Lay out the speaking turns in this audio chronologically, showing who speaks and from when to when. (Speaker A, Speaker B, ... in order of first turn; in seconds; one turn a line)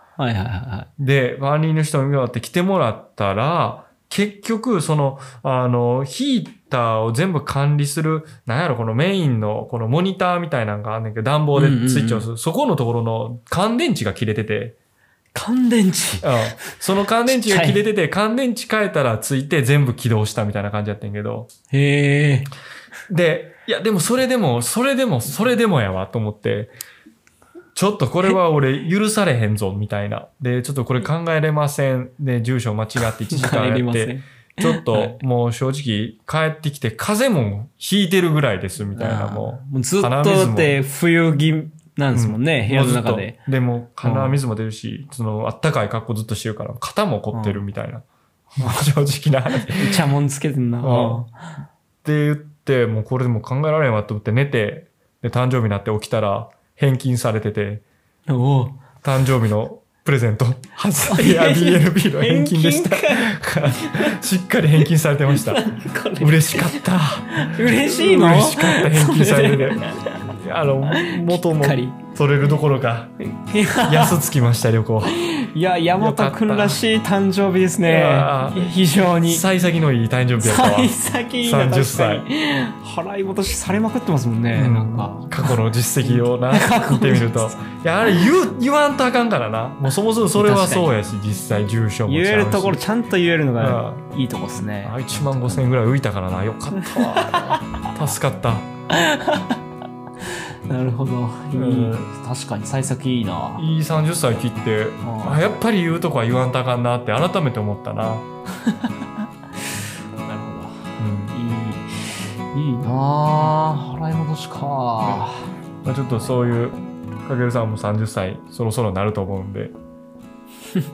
Speaker A: 0.2-0.9
Speaker B: 1.0-14.8
Speaker A: 11.5-12.2
Speaker A: 15.3-16.6
Speaker B: 16.2-21.5
Speaker A: 17.2-17.8
Speaker A: 21.7-22.5
Speaker B: 23.1-26.7
Speaker B: 27.8-40.8
Speaker A: 33.0-35.2
Speaker A: 39.0-43.4
Speaker B: 42.1-48.0
Speaker A: 44.0-44.4
Speaker A: 47.3-47.6
Speaker B: 48.6-50.0
Speaker A: 49.6-51.6
Speaker B: 50.8-51.2
Speaker B: 52.0-57.8
Speaker A: 58.3-58.8
Speaker B: 59.0-65.6
Speaker A: 61.0-64.2
Speaker A: 64.9-70.2
Speaker B: 66.2-73.1
Speaker A: 70.9-72.0
Speaker A: 73.2-74.2
Speaker B: 73.8-75.2
Speaker A: 75.1-79.5
Speaker B: 76.0-76.8
Speaker B: 77.8-82.3
Speaker A: 80.4-87.6
Speaker B: 84.5-92.8
Speaker A: 90.3-90.9
Speaker A: 92.1-95.6
Speaker B: 93.6-94.0
Speaker B: 94.8-98.7
Speaker A: 96.8-97.8
Speaker A: 98.9-99.6
Speaker A: 100.3-103.6
Speaker B: 101.5-102.1
Speaker B: 103.6-108.2
Speaker A: 105.0-105.4
Speaker A: 108.6-109.1
Speaker A: 110.2-115.5
Speaker B: 111.0-111.4
Speaker B: 115.8-119.7